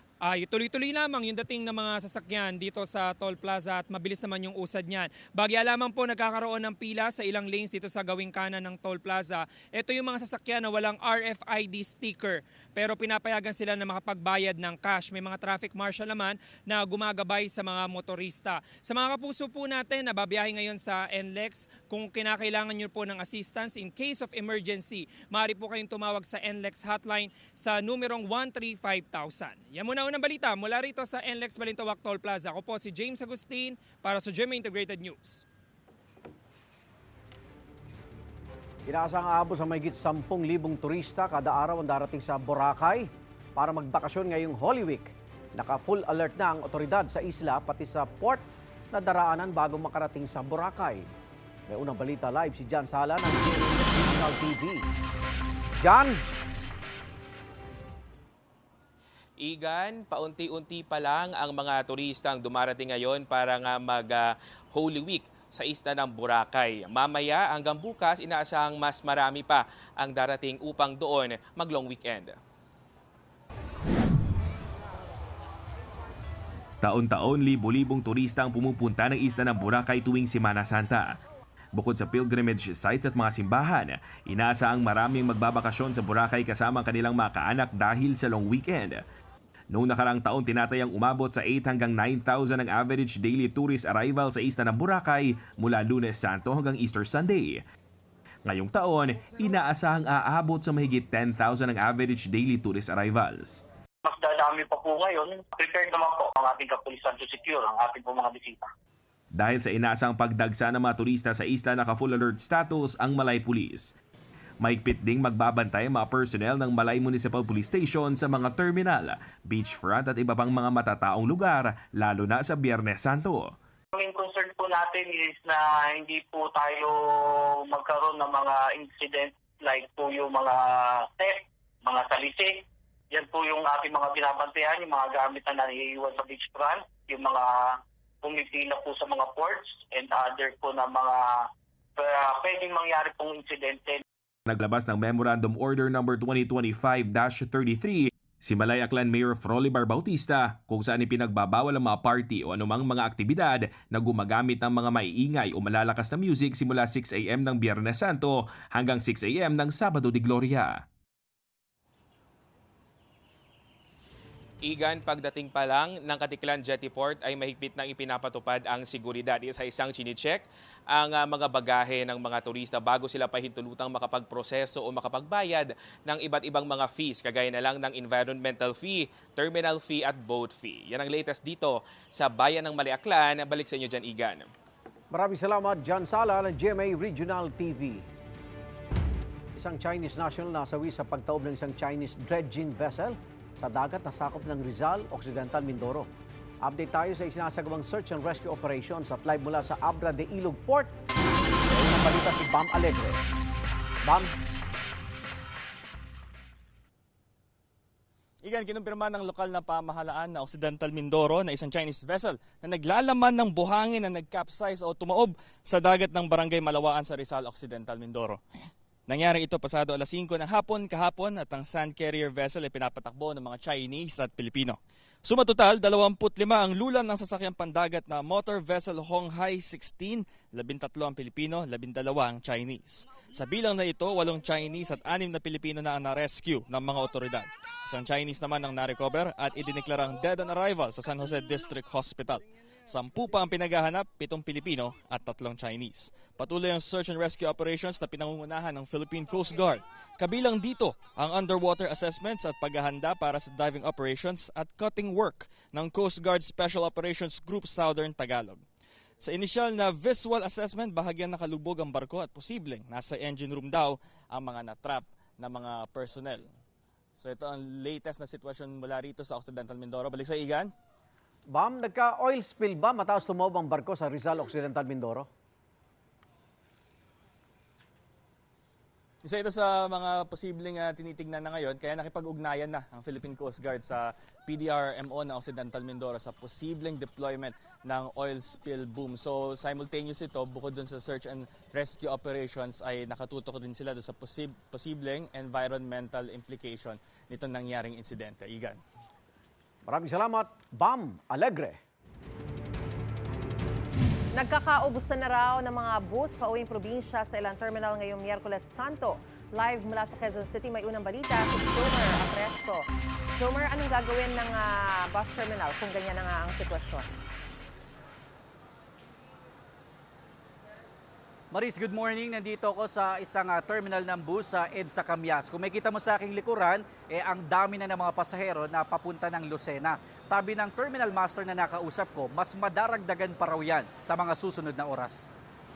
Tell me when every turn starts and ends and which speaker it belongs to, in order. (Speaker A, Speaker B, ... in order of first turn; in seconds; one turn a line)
Speaker A: 0.2-35.4
Speaker B: 38.9-51.1
Speaker B: 51.7-54.9
Speaker B: 55.8-56.2
Speaker C: 59.4-72.4
Speaker D: 76.8-81.2
Speaker D: 81.8-89.0
Speaker D: 89.7-97.6
Speaker D: 98.5-103.6
Speaker E: 104.0-108.7
Speaker D: 109.3-113.9
Speaker D: 114.6-123.5
Speaker E: 124.0-144.0
Speaker D: 144.5-160.8
Speaker C: 164.7-184.5
Speaker B: 185.1-188.1
Speaker B: 189.6-196.1
Speaker B: 196.6-200.9
Speaker B: 201.7-203.2
Speaker B: 204.0-204.3
Speaker F: 208.4-218.4
Speaker F: 219.1-258.6
Speaker F: 259.2-266.5
Speaker F: 267.2-270.7
Speaker B: 271.5-275.3
Speaker F: 279.2-298.8
Speaker B: 299.9-301.8
Speaker G: 304.4-317.1
Speaker H: 321.5-335.3